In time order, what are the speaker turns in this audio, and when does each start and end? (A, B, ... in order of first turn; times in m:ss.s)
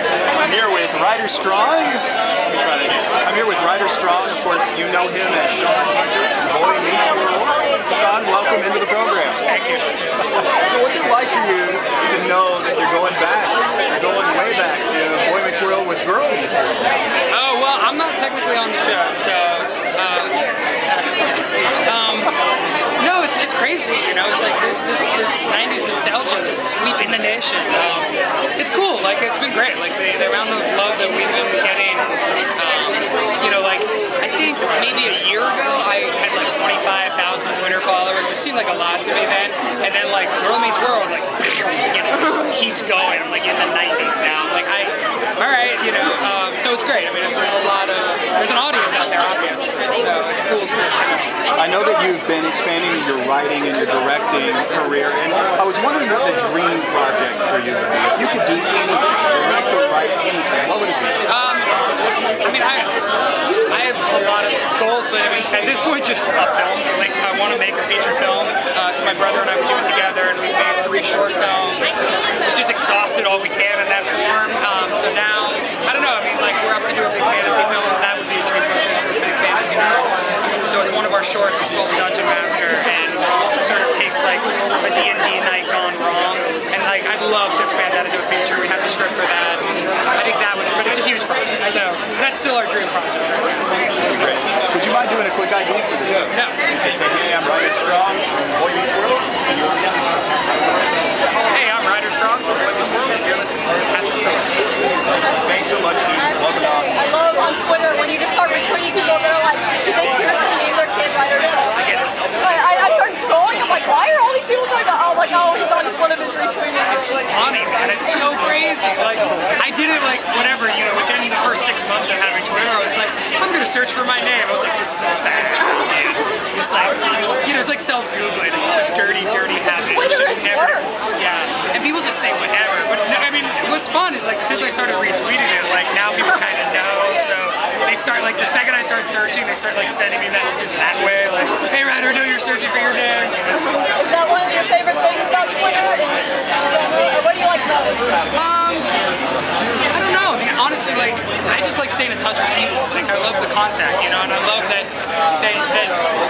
0:00.4-0:09.4 A
0:09.4-0:09.8 B
0:10.4-0:16.8 A
0:17.3-0:20.4 B
0:21.8-0:22.3 B
0:23.0-0:51.1 B
0:51.6-1:01.2 A
1:01.2-1:01.7 B
1:02.4-1:02.9 B
1:03.6-1:11.9 B
1:12.5-1:33.6 B
1:33.9-1:40.3 A
1:36.3-1:36.6 B
1:41.5-1:44.8 B
1:45.1-1:47.0 A
1:46.9-1:51.7 C
1:51.7-1:53.0 B
1:52.4-1:57.2 C
1:57.2-2:23.6 B
2:09.8-2:10.9 C
2:24.0-2:28.1 C
2:28.3-2:28.9 B
2:29.9-2:36.1 B